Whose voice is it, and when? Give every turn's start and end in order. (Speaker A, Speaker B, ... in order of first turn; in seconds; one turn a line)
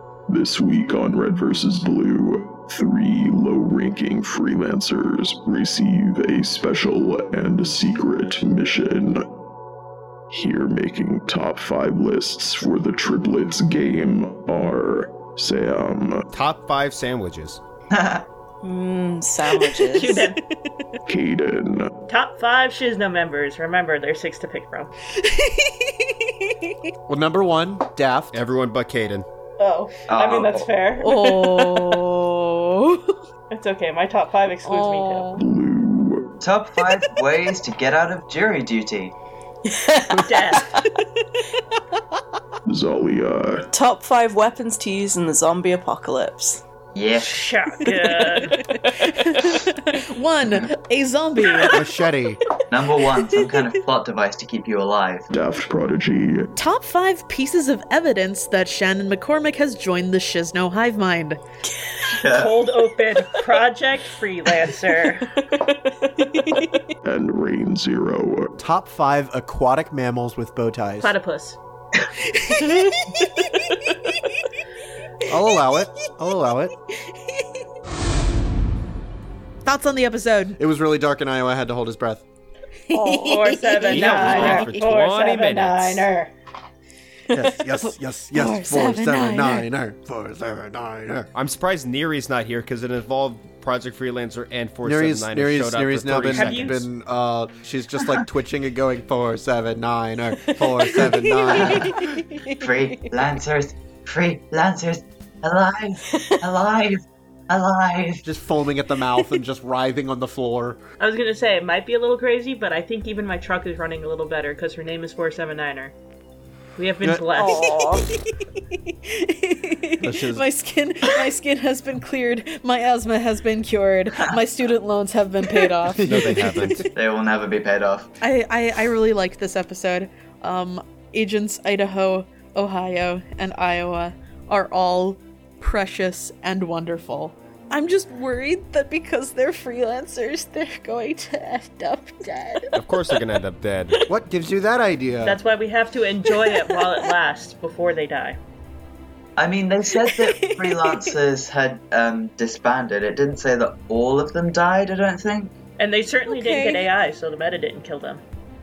Speaker A: 0.3-9.3
Speaker A: 10.3-16.3
Speaker B: 16.3-17.6
Speaker C: 17.9-18.3
Speaker D: 18.6-20.3
Speaker E: 19.9-20.4
Speaker F: 20.2-21.0
Speaker A: 21.1-21.9
Speaker E: 22.1-24.9
Speaker F: 25.1-26.8
Speaker G: 27.1-28.4
Speaker B: 28.3-29.2
Speaker E: 29.6-32.0
Speaker C: 30.1-30.7
Speaker F: 31.0-33.2
Speaker E: 33.5-35.4
Speaker F: 34.6-35.4
Speaker A: 35.4-36.4
Speaker C: 36.4-39.1
Speaker D: 39.7-40.8
Speaker E: 40.1-40.8
Speaker A: 42.7-43.7
Speaker D: 43.7-46.6
Speaker C: 47.0-47.5
Speaker E: 47.2-48.6
Speaker F: 48.4-51.8
Speaker G: 51.7-52.4
Speaker C: 52.7-55.3
Speaker A: 55.3-56.5
Speaker F: 56.6-61.4
Speaker C: 62.0-62.7
Speaker E: 62.2-65.3
Speaker D: 65.2-66.7
Speaker A: 67.0-68.5
Speaker G: 68.6-71.1
Speaker E: 71.0-71.6
Speaker F: 72.2-74.2
Speaker G: 75.2-76.7
Speaker F: 77.1-77.5
Speaker F: 79.7-80.6
Speaker G: 80.6-82.2
Speaker F: 82.9-84.6
Speaker E: 82.9-86.3
Speaker B: 83.9-86.1
Speaker G: 84.4-84.8
Speaker G: 87.3-91.3
Speaker F: 87.4-89.7
Speaker B: 91.3-96.8
Speaker G: 94.8-102.2
Speaker E: 96.3-96.9
Speaker F: 100.5-102.8
Speaker C: 101.5-102.0
Speaker C: 102.6-108.2
Speaker G: 108.2-110.8
Speaker E: 111.0-116.0
Speaker E: 116.8-117.8
Speaker D: 117.3-118.1
Speaker F: 117.5-126.8
Speaker G: 120.0-120.5
Speaker G: 125.8-126.8
Speaker B: 126.1-126.9
Speaker C: 126.9-128.1
Speaker F: 128.2-142.8
Speaker B: 142.7-144.0
Speaker G: 144.1-145.4
Speaker E: 145.2-148.4
Speaker C: 149.4-155.5
Speaker F: 150.0-151.1
Speaker E: 155.8-158.2
Speaker F: 156.3-156.9